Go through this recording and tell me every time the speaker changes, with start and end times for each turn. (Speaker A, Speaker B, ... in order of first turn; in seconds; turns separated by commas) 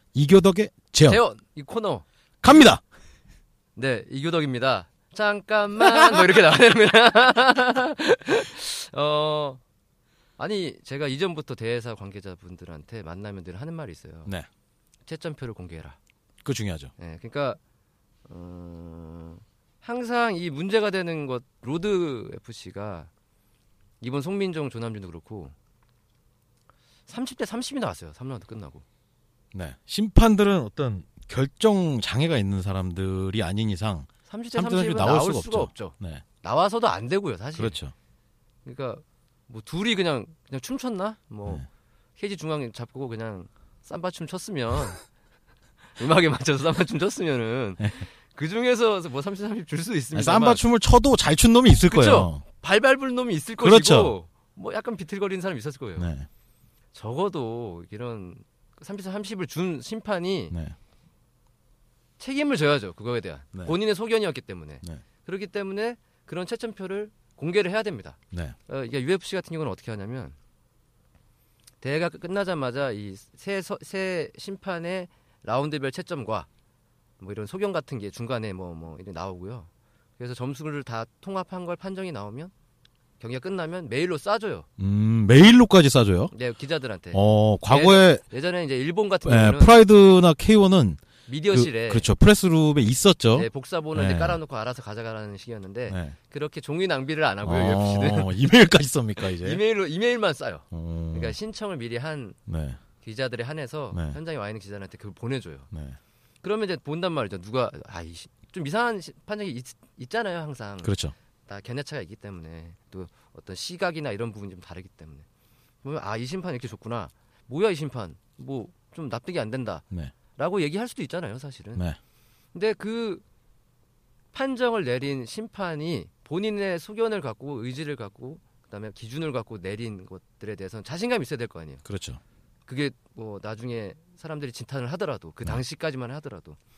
Speaker A: 0.1-1.2, Speaker B: 1.1-2.0, Speaker A: 2.4-2.8, Speaker B: 3.7-9.6, Speaker B: 10.4-14.3, Speaker B: 15.0-16.0, Speaker A: 16.4-16.9, Speaker B: 17.0-17.6, Speaker B: 18.2-23.1, Speaker B: 24.0-25.5, Speaker B: 27.1-28.8, Speaker A: 29.5-36.2, Speaker B: 34.2-37.8, Speaker A: 37.5-37.9, Speaker B: 38.6-41.6, Speaker B: 42.2-45.0, Speaker B: 46.0-50.6, Speaker A: 50.1-52.4, Speaker B: 51.8-56.1, Speaker A: 53.6-54.1, Speaker A: 56.0-56.3, Speaker B: 56.9-60.5, Speaker A: 60.5-60.8, Speaker B: 62.2-70.3, Speaker B: 71.8-76.5, Speaker B: 77.2-82.5, Speaker B: 83.2-84.7, Speaker A: 84.8-86.3, Speaker B: 86.3-89.8, Speaker A: 87.1-88.2, Speaker A: 89.2-94.4, Speaker B: 91.2-92.1, Speaker B: 93.3-98.6, Speaker A: 95.9-96.1, Speaker A: 97.4-99.6, Speaker B: 99.2-102.4, Speaker A: 100.7-101.3, Speaker A: 102.5-102.8, Speaker B: 103.0-105.7, Speaker A: 103.9-104.2, Speaker A: 105.7-106.0, Speaker B: 106.4-110.9, Speaker A: 110.8-111.1, Speaker B: 111.5-115.2, Speaker B: 115.8-121.8, Speaker B: 122.5-123.2, Speaker B: 124.3-131.8, Speaker A: 131.8-132.2, Speaker B: 132.7-136.6